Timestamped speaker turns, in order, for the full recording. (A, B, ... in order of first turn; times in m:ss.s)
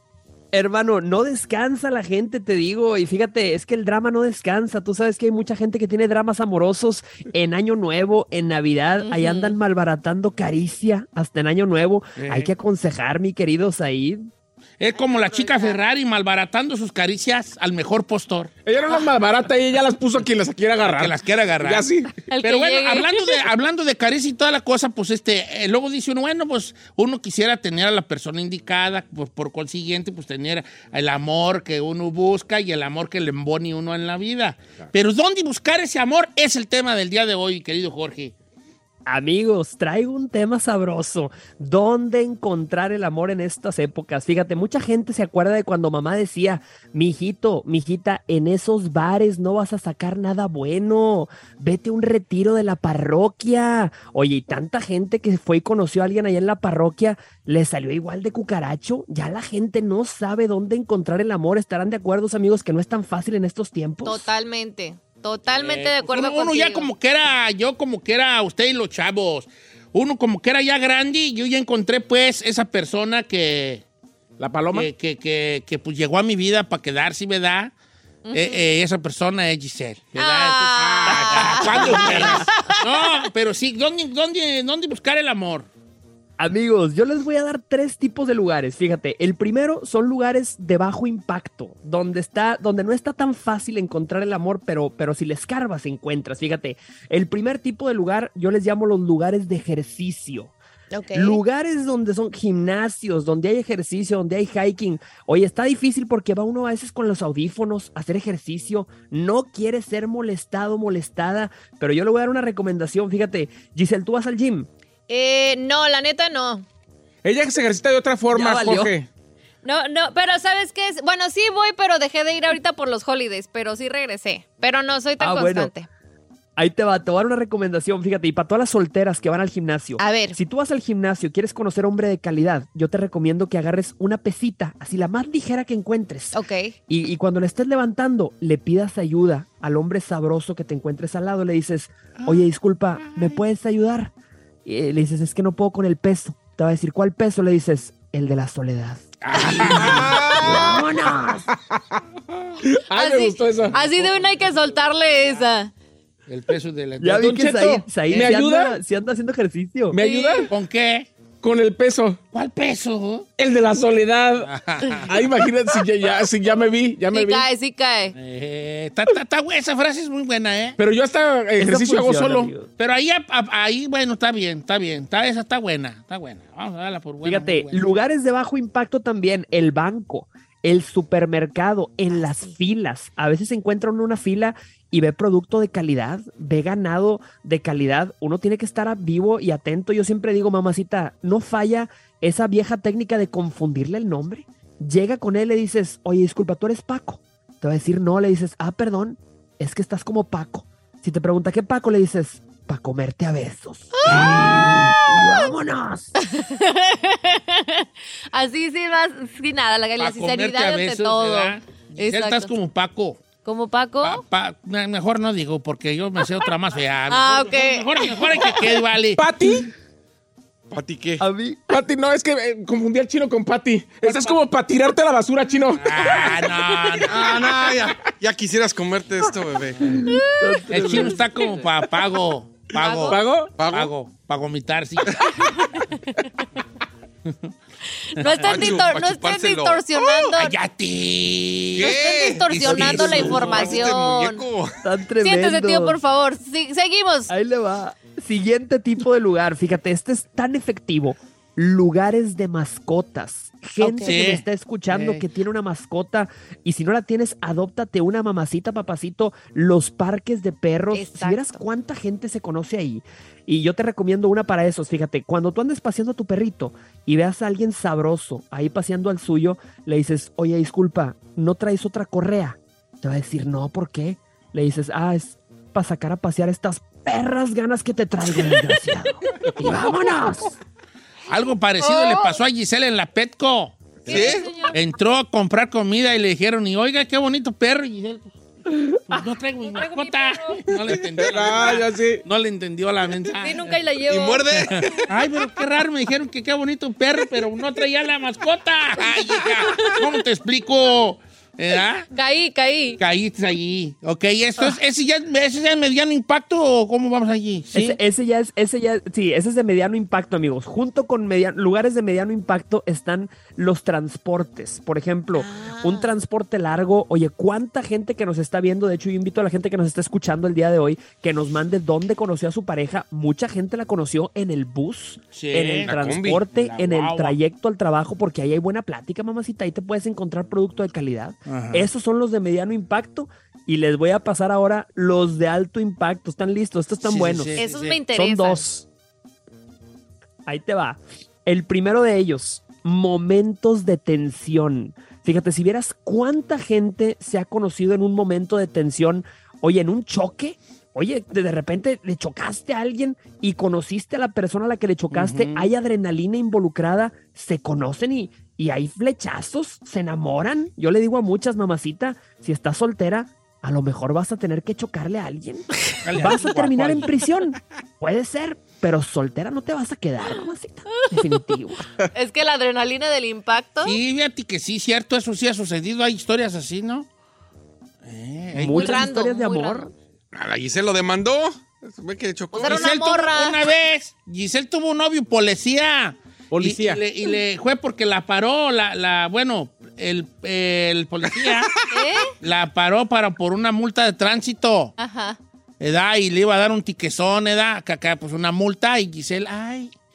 0:00.5-0:14.2 A
0:09.0-0:09.6 B
0:12.2-0:12.5 C
0:14.8-0:18.5 C
0:14.9-0:15.8 B
0:18.6-0:22.1 D
0:20.8-0:21.9 C
0:22.3-0:23.3 B
0:22.4-0:38.3 C
0:39.1-1:04.3 A
1:04.0-1:06.9 B
1:05.5-1:13.8 C
1:14.4-1:14.9 D
1:14.7-1:17.7 C
1:18.2-1:18.6 B
1:18.3-1:25.7 C
1:20.2-1:22.9 B
1:21.1-1:22.5 A
1:26.4-1:40.5 A
1:40.9-1:41.4 B
1:41.1-1:54.7 A
1:55.1-1:56.6 B
1:57.2-1:59.1 D
1:58.3-1:58.9 A
1:59.6-2:05.9 B
2:05.2-2:05.7 A
2:06.6-2:24.1 A
2:10.0-2:10.4 B
2:16.3-2:16.8 B
2:24.6-2:29.2 A
2:29.2-2:30.4 C
2:29.4-2:30.1 D
2:30.0-2:30.6 E
2:30.4-2:31.5 A
2:32.6-2:33.8 D
2:33.0-2:35.7 B
2:33.8-2:34.3 C
2:36.3-2:37.4 C
2:37.0-2:40.0 A
2:37.1-2:38.8 D
2:38.1-2:38.4 C
2:39.9-2:40.5 D
2:40.0-2:40.5 B
2:40.5-2:41.1 C
2:41.4-2:42.2 D
2:42.3-2:43.3 C
2:43.4-2:47.5 D
2:44.4-2:45.1 C
2:47.1-2:48.1 B
2:48.1-2:50.8 C
2:50.8-2:52.5 D
2:51.6-2:52.7 A
2:52.8-2:57.8 C
2:57.2-3:26.1 A
3:02.1-3:02.5 B
3:24.0-3:25.5 B
3:26.2-3:32.5 B
3:30.0-3:33.2 C
3:33.4-3:34.2 B
3:34.0-3:39.2 C
3:37.1-3:38.4 B
3:39.2-3:39.7 D
3:40.7-3:41.3 E
3:41.2-3:41.6 A
3:41.7-3:48.1 D
3:45.8-3:47.3 C
3:47.1-3:50.0 E
3:49.8-3:51.2 A
3:50.7-3:55.3 C
3:52.8-3:53.2 B
3:53.1-3:53.5 D
3:53.6-3:53.9 E
3:55.5-3:55.8 B
3:58.1-4:00.6 B
3:58.2-3:58.9 C
3:58.4-3:59.8 E
4:00.3-4:03.8 C
4:01.8-4:04.8 E
4:01.8-4:04.4 B
4:04.8-4:06.0 A
4:05.2-4:07.3 B
4:07.3-4:40.6 A
4:13.8-4:14.1 B
4:14.0-4:15.2 C
4:20.9-4:21.6 B
4:41.3-4:48.3 C
4:41.8-4:42.3 B
4:44.1-4:44.5 E
4:44.1-4:44.8 B
4:49.1-4:53.8 C
4:49.7-4:50.6 B
4:51.2-4:52.2 D
4:53.4-4:54.6 B
4:54.1-4:55.1 E
4:54.9-5:02.1 C
5:02.1-5:03.0 B
5:03.0-5:08.0 C
5:07.7-5:37.5 A
5:15.4-5:16.1 B
5:25.3-5:25.9 C
5:25.9-5:26.4 E
5:26.5-5:27.4 C
5:31.5-5:31.9 C
5:37.0-5:38.0 C
5:37.6-5:38.6 B
5:38.1-5:38.9 A
5:40.5-6:11.9 A
5:55.1-5:55.7 C
6:06.0-6:07.2 C
6:11.0-6:11.3 B
6:12.1-6:14.0 B
6:13.8-6:17.1 C
6:18.0-6:19.0 C
6:18.5-6:19.9 A
6:18.7-6:19.9 B
6:20.3-6:22.9 E
6:22.5-6:23.6 B
6:22.6-6:31.7 C
6:26.5-6:27.0 D
6:31.9-6:32.3 B
6:32.4-6:34.9 C
6:35.0-6:35.4 B
6:35.8-6:39.9 C